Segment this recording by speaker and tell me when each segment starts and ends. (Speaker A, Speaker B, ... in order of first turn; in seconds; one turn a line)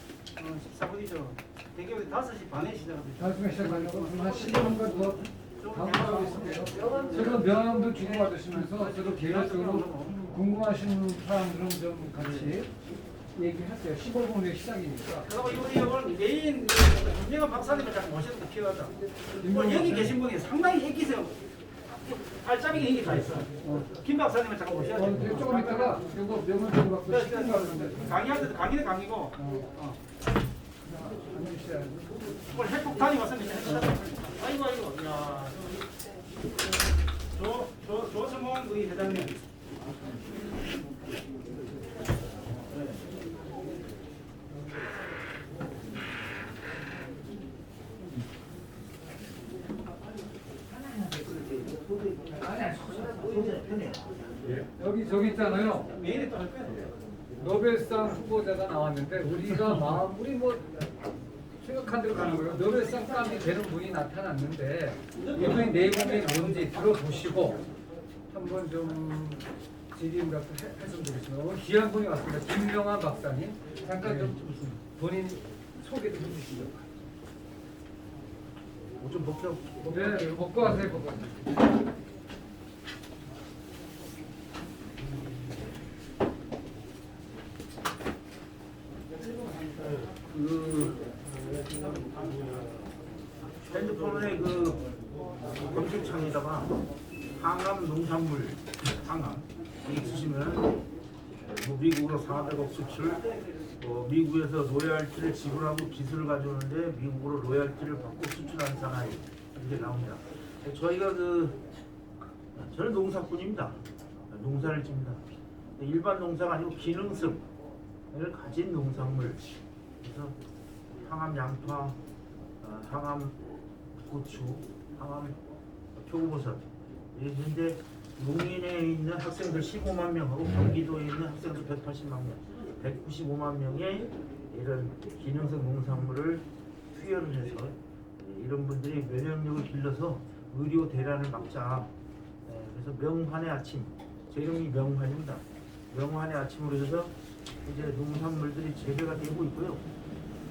Speaker A: 0.4-10.2
Speaker B: 3.2-12.7
Speaker B: 13.3-15.3
Speaker A: 15.2-26.2
Speaker B: 19.4-20.2
Speaker B: 23.6-23.9
Speaker B: 24.9-28.5
Speaker A: 27.1-30.0
Speaker B: 29.4-29.7
Speaker B: 30.9-32.2
Speaker A: 32.5-35.7
Speaker A: 37.3-39.4
Speaker C: 51.1-54.1
Speaker B: 54.8-55.9
Speaker A: 55.8-56.9
Speaker B: 57.4-60.8
Speaker B: 61.6-67.7
Speaker A: 62.6-63.0
Speaker A: 65.2-66.8
Speaker B: 68.3-76.8
Speaker C: 74.0-74.8
Speaker C: 79.0-80.8
Speaker B: 79.8-81.6
Speaker C: 90.3-91.0
Speaker C: 93.7-94.8
Speaker C: 95.6-96.8
Speaker C: 97.4-100.8
Speaker C: 101.5-103.3
Speaker C: 103.8-111.6
Speaker C: 112.5-113.8
Speaker C: 114.3-115.2
Speaker C: 115.8-117.4
Speaker C: 118.1-119.4
Speaker C: 120.0-120.3
Speaker C: 121.0-122.0
Speaker C: 122.6-123.4
Speaker C: 124.0-125.4
Speaker C: 126.0-126.6
Speaker C: 127.1-141.9
Speaker C: 142.5-147.1
Speaker C: 147.7-149.8